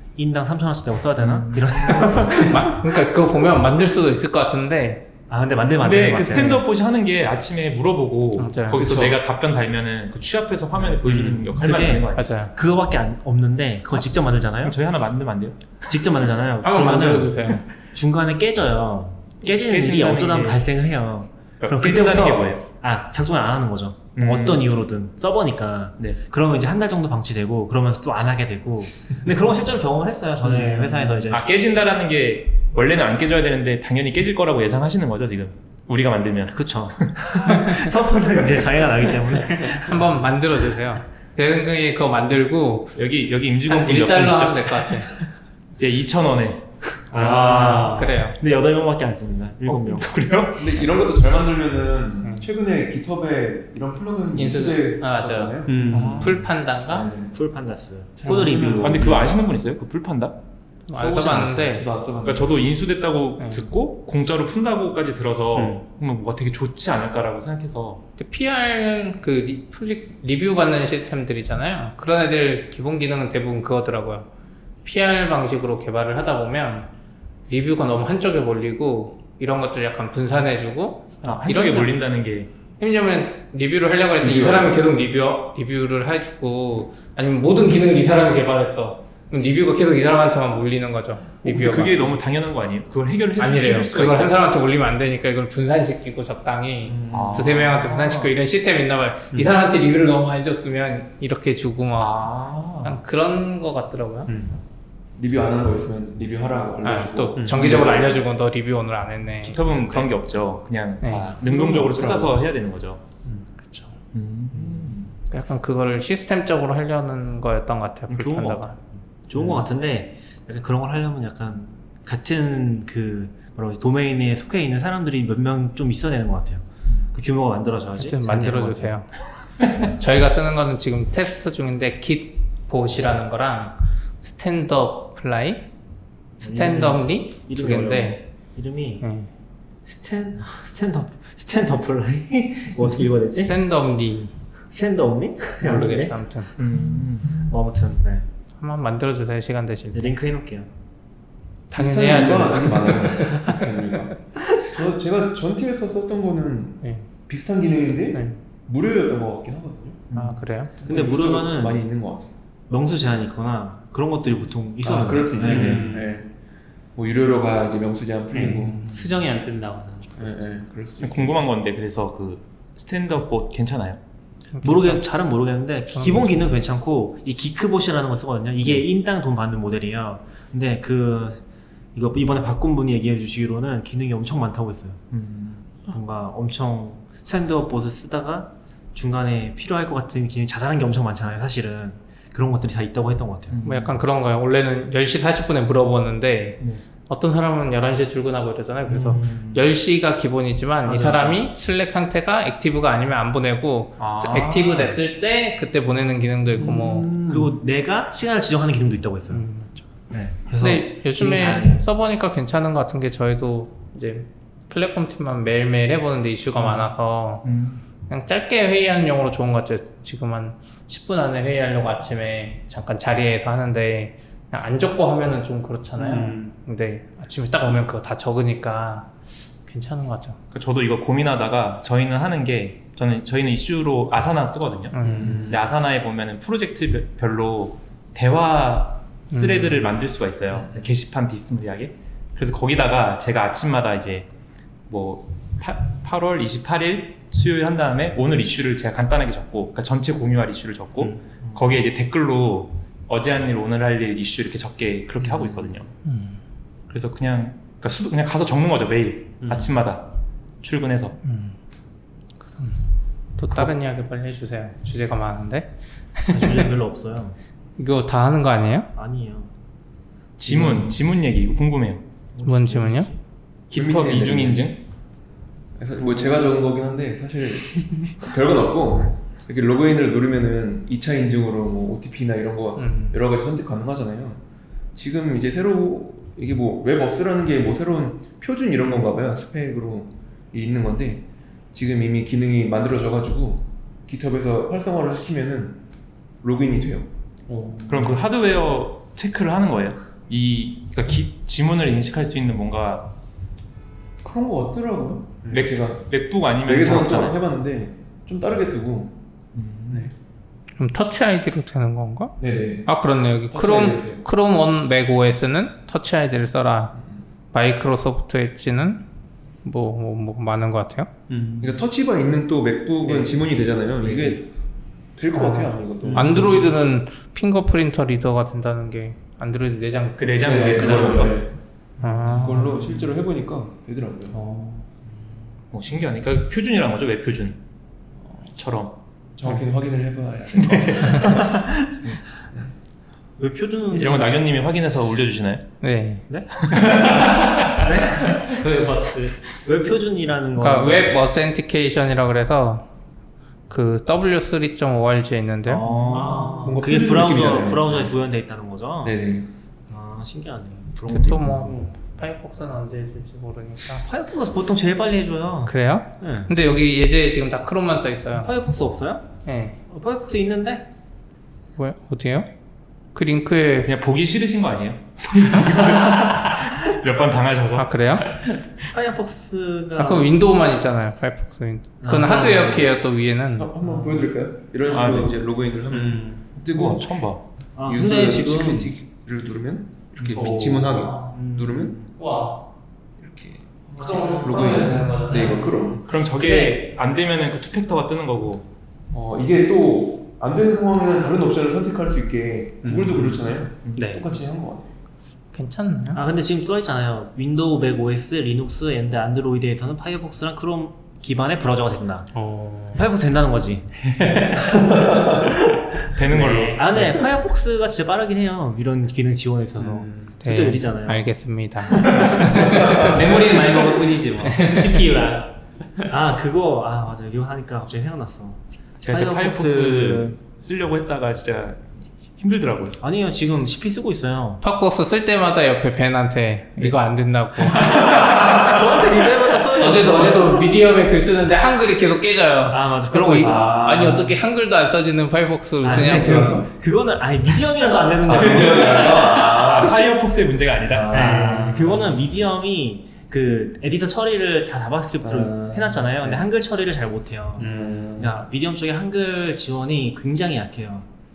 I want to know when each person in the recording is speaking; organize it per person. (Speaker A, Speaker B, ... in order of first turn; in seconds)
Speaker A: 0.1-2.8, 5.3-6.6, 11.0-14.8, 15.8-31.6, 36.5-40.1, 47.1-50.1, 57.3-59.2, 118.1-118.6, 119.2-128.9, 136.4-139.0, 139.8-143.6, 144.7-146.2, 147.3-148.3, 149.9-150.7, 160.8-161.8, 162.7-165.9, 174.6-181.4, 181.9-185.0, 185.9-193.6, 198.9-199.6, 200.8-201.4, 206.6-209.4, 210.1-211.8, 266.3-267.4, 268.9-269.5, 270.5-270.9, 272.4-273.2, 343.4-344.4, 346.3-348.9, 349.5-351.2, 355.6-359.1, 359.9-361.9, 364.0-366.5, 368.4-369.3, 369.9-370.9, 378.9-380.4, 382.0-382.9, 383.8-384.2, 387.8-388.9, 391.3-392.0, 394.0-394.8, 396.4-396.8, 406.1-412.4, 412.9-414.0, 416.3-421.3, 426.1-430.4, 433.0-434.6, 437.8-440.7, 442.7-444.1, 445.8-449.2, 451.1-461.1
Speaker B: 1.2-2.1, 5.8-12.3, 14.5-15.7, 19.4-20.6, 21.6-22.6, 24.1-24.6, 30.8-37.8, 43.0-44.9, 45.8-47.9, 49.6-50.9, 55.9-56.4, 58.8-60.4, 62.2-68.0, 81.2-82.5, 91.4-94.3, 97.1-98.3, 102.0-103.0, 109.4-113.0, 114.1-115.1, 118.2-118.6, 146.6-147.4, 171.0-174.0, 185.1-185.7, 193.5-194.0, 204.0-205.0, 217.4-217.8, 230.5-244.3, 244.9-255.9, 256.9-260.1, 260.6-261.2, 270.4-272.0, 273.7-274.8, 297.9-303.1, 305.5-307.4, 309.5-310.1, 330.2-331.5, 335.7-337.6, 338.5-339.0, 340.5-341.4, 343.9-345.7, 346.6-348.5, 373.8-378.6, 384.9-385.4, 386.6-387.4, 390.3-390.8, 396.1-398.6, 416.1-417.1, 423.4-424.0, 429.0-433.0, 448.5-451.3
Speaker C: 2.1-5.1, 8.4-9.1, 12.1-12.5, 16.6-17.6, 39.8-43.0, 43.7-45.1, 47.7-48.4, 52.2-52.5, 54.3-55.6, 56.1-57.1, 60.9-61.9, 63.4-63.6, 68.2-74.3, 74.8-76.9, 77.5-82.0, 82.8-92.1, 93.4-102.2, 102.8-104.3, 106.8-110.1, 111.0-112.2, 115.3-118.8, 128.0-129.1, 129.7-135.7, 136.4-138.2, 139.0-139.3, 143.4-144.3, 145.6-146.5, 148.6-150.2, 151.7-153.5, 156.8-157.1, 158.1-158.4, 160.1-160.7, 174.5-175.1, 175.9-176.3, 193.6-207.1, 209.3-209.8, 210.6-217.4, 218.1-229.1, 229.6-230.4, 234.9-235.5, 239.3-239.9, 256.0-256.4, 261.2-261.6, 262.6-262.9, 263.4-266.7, 267.8-268.9, 272.4-273.1, 282.8-283.2, 310.8-316.9, 317.5-319.1, 319.6-321.1, 325.3-331.3, 332.0-332.8, 345.8-346.2, 350.6-352.9, 353.7-355.9, 361.1-364.1, 365.6-368.5, 369.4-369.8, 371.8-372.5, 373.1-373.9, 377.8-378.3, 380.0-383.7, 390.5-391.3, 392.2-392.6, 394.0-395.7, 405.5-406.2, 420.4-423.2, 424.4-425.0, 434.6-438.5, 439.7-446.6
Speaker D: 30.6-31.0, 47.1-48.1, 55.6-56.3, 65.5-65.8, 104.3-104.5, 107.4-107.7, 165.4-166.1, 168.3-170.2, 206.8-207.4, 226.0-226.5, 235.0-235.6, 259.4-259.7, 297.5-298.1, 321.3-321.8, 326.0-326.4, 347.2-347.7, 348.6-349.4, 356.1-356.8, 385.9-386.4, 390.3-390.9, 394.1-395.1, 402.8-404.2, 412.3-413.1, 414.0-414.8, 416.3-416.8, 420.0-420.3, 422.9-426.1, 451.1-451.9, 457.7-458.0
Speaker E: 50.5-57.3, 58.2-59.4, 61.0-62.6, 84.2-84.7, 96.9-97.6, 105.2-108.2, 151.7-160.1, 160.8-162.3, 164.8-166.3, 166.9-169.2, 170.2-171.4, 273.7-274.7, 275.8-284.4, 284.9-295.8, 296.4-297.1, 304.2-306.0, 306.6-309.2, 312.4-312.9, 313.5-314.2, 321.6-324.5, 325.2-326.7, 330.4-331.5, 332.2-334.4, 339.4-341.6, 356.6-358.1, 359.0-359.5, 383.6-387.2, 387.9-392.0, 393.2-396.0, 399.1-404.9, 443.4-444.3, 445.9-446.7, 448.2-450.0, 450.9-451.7, 455.2-456.5, 457.6-458.4